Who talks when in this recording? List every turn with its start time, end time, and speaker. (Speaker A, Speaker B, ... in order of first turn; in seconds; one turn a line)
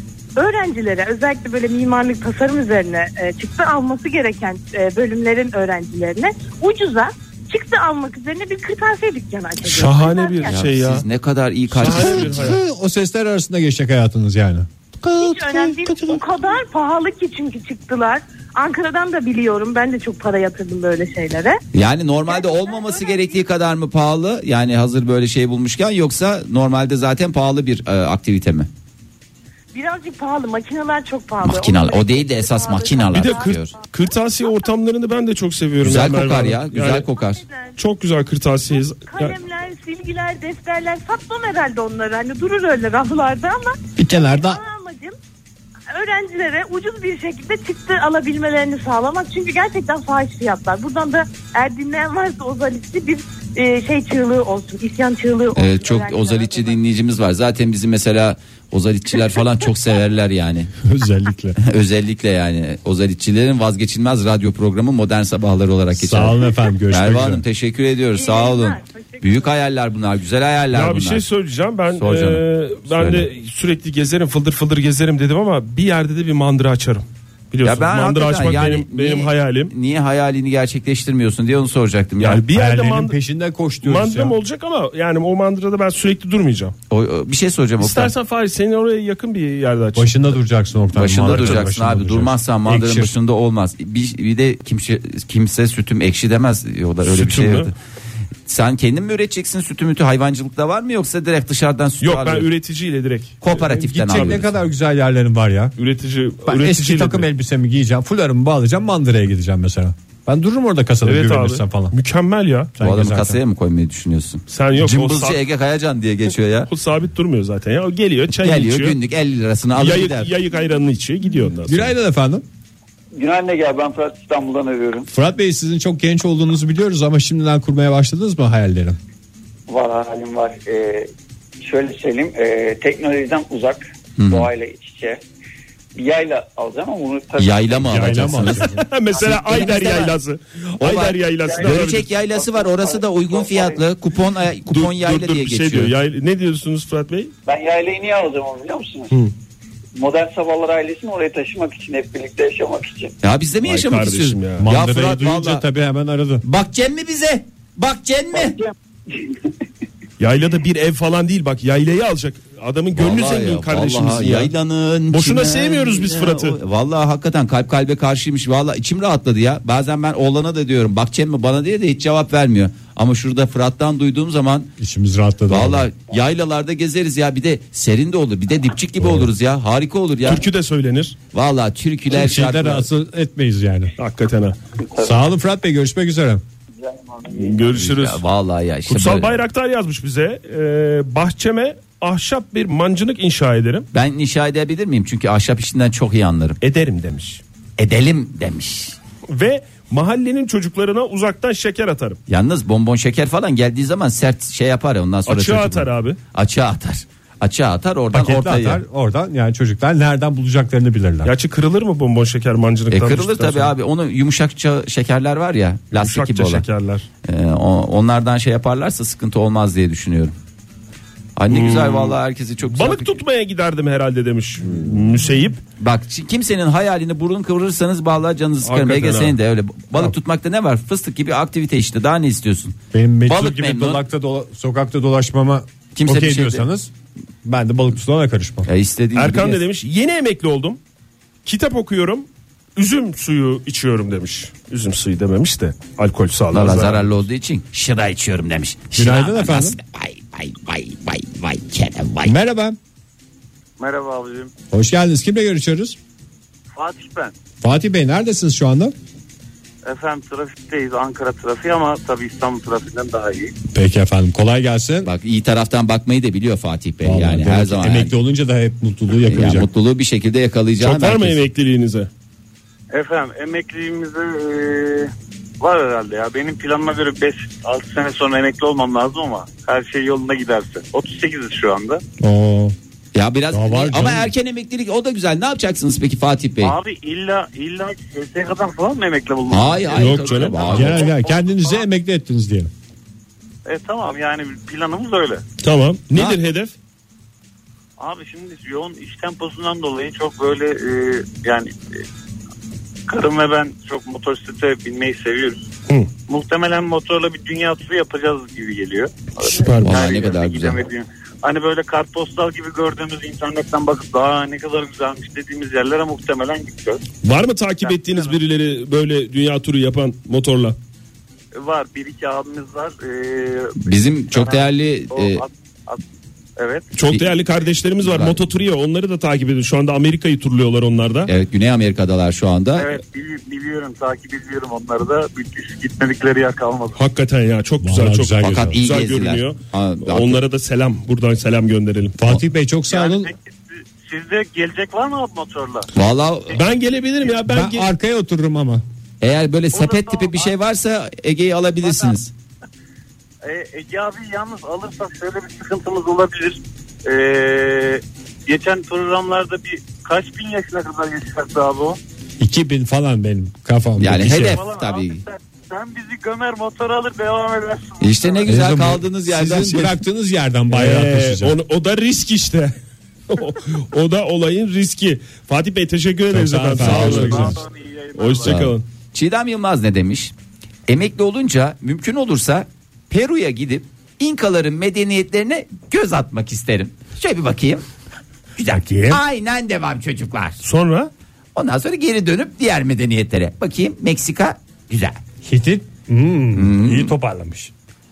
Speaker A: 0.4-10.6
Speaker B: 9.7-11.1
Speaker C: 10.5-12.6
Speaker B: 11.7-12.6
Speaker D: 11.8-16.2
Speaker A: 15.2-21.6
Speaker C: 21.7-28.7
Speaker A: 22.3-23.4
Speaker A: 29.7-33.5
Speaker C: 31.4-33.8
Speaker B: 33.1-37.1
Speaker C: 35.8-37.4
Speaker A: 37.2-37.8
Speaker B: 37.8-39.4
Speaker A: 38.7-45.2
Speaker D: 44.0-44.6
Speaker A: 45.9-56.8
Speaker C: 55.5-60.7
Speaker D: 60.9-61.6
Speaker C: 61.6-71.2
Speaker D: 65.9-67.4
Speaker A: 68.2-69.5
Speaker B: 70.7-79.7
Speaker C: 72.0-73.3
Speaker C: 77.6-82.4
Speaker B: 82.2-83.1
Speaker D: 82.5-84.4
Speaker B: 83.8-86.7
Speaker C: 86.9-88.1
Speaker B: 87.8-90.3
Speaker D: 90.0-93.1
Speaker C: 91.0-97.7
Speaker B: 91.1-91.7
Speaker B: 97.0-97.7
Speaker C: 98.5-102.5
Speaker B: 102.0-104.4
Speaker C: 103.4-104.5
Speaker D: 103.7-105.7
Speaker B: 105.8-107.3
Speaker D: 106.5-112.0
Speaker B: 111.0-112.7
Speaker D: 112.8-113.4
Speaker C: 112.8-116.7
Speaker B: 114.5-115.4
Speaker B: 116.7-119.0
Speaker C: 118.4-120.3
Speaker B: 119.8-121.9
Speaker D: 121.7-122.4
Speaker E: 123.2-125.1
Speaker D: 125.1-129.0
Speaker E: 129.7-131.1
Speaker E: 131.6-135.2
Speaker C: 134.2-134.5
Speaker E: 136.0-138.1
Speaker C: 137.4-140.1
Speaker D: 137.9-138.8
Speaker B: 138.0-142.1
Speaker C: 140.8-145.9
Speaker E: 141.4-143.8
Speaker B: 144.7-147.3
Speaker E: 147.5-149.2
Speaker E: 149.9-153.2
Speaker C: 153.2-155.6
Speaker B: 153.6-155.0
Speaker D: 154.6-156.4
Speaker C: 156.4-158.6
Speaker E: 158.3-158.7
Speaker B: 160.2-164.5
Speaker C: 162.9-174.7
Speaker B: 165.1-166.6
Speaker D: 174.8-175.9
Speaker C: 175.5-180.4
Speaker D: 179.0-179.3
Speaker B: 180.2-181.2
Speaker C: 181.3-182.9
Speaker D: 182.1-183.9
Speaker B: 184.0-184.6
Speaker D: 185.0-186.4
Speaker E: 186.8-187.8
Speaker B: 187.3-188.2
Speaker C: 187.7-189.4
Speaker B: 188.9-193.9
Speaker C: 193.9-196.6
Speaker B: 196.6-197.4
Speaker C: 197.8-199.0
Speaker B: 199.3-202.2
Speaker C: 202.3-208.8
Speaker B: 205.3-206.2
Speaker D: 208.1-211.3
Speaker B: 211.2-213.7
Speaker C: 212.9-216.7
Speaker B: 215.9-217.1
Speaker C: 217.2-220.3
Speaker C: 221.4-223.2
Speaker B: 221.5-225.6
Speaker C: 225.8-232.8
Speaker B: 228.6-229.4
Speaker D: 232.9-236.9
Speaker C: 233.3-234.0
Speaker C: 236.0-236.7
Speaker D: 237.4-238.7
Speaker C: 238.7-239.6
Speaker B: 239.2-240.8
Speaker B: 241.4-247.1
Speaker C: 246.5-252.3
Speaker D: 248.9-249.8
Speaker D: 252.2-252.8
Speaker F: 253.8-254.5
Speaker D: 254.7-256.0
Speaker F: 256.7-257.3
Speaker D: 257.6-258.9
Speaker F: 259.9-263.5
Speaker D: 263.7-265.1
Speaker C: 265.1-268.1
Speaker D: 267.0-269.7
Speaker C: 269.3-271.4
Speaker B: 270.8-272.1
Speaker F: 272.9-282.0
Speaker D: 282.2-282.8
Speaker C: 283.1-286.8
Speaker D: 283.5-284.3
Speaker F: 286.6-291.8
Speaker C: 289.5-291.1
Speaker B: 289.9-290.8
Speaker D: 290.7-292.7
Speaker F: 293.7-295.4
Speaker B: 295.6-296.7
Speaker F: 298.0-301.8
Speaker F: 303.1-305.6
Speaker F: 306.3-317.0
Speaker B: 309.5-309.9
Speaker C: 309.8-310.8
Speaker B: 317.2-320.8
Speaker F: 317.9-318.4
Speaker F: 321.6-323.8
Speaker C: 323.8-325.4
Speaker F: 324.3-326.0
Speaker F: 326.6-326.9
Speaker B: 326.9-331.3
Speaker C: 328.0-328.4
Speaker C: 331.3-332.9
Speaker F: 332.8-337.0
Speaker B: 337.0-342.2
Speaker D: 337.8-338.8
Speaker C: 338.4-340.4
Speaker D: 342.2-343.3
Speaker F: 342.9-345.9
Speaker C: 345.9-346.6
Speaker B: 346.5-347.9
Speaker D: 347.4-348.8
Speaker C: 349.2-352.3
Speaker F: 349.7-350.5
Speaker F: 351.8-352.1
Speaker F: 353.4-362.0
Speaker D: 362.4-364.6
Speaker C: 364.0-365.2
Speaker F: 364.2-368.6
Speaker C: 368.0-370.0
Speaker D: 368.5-371.6
Speaker B: 370.7-372.7
Speaker B: 373.3-377.6
Speaker D: 376.3-377.6
Speaker F: 376.8-378.6
Speaker C: 376.8-377.3
Speaker B: 378.1-378.9
Speaker C: 378.4-380.3
Speaker C: 380.9-387.8
Speaker C: 388.6-390.6
Speaker D: 388.7-389.2
Speaker B: 390.6-391.1
Speaker C: 391.6-395.2
Speaker D: 395.4-397.7
Speaker C: 396.6-397.1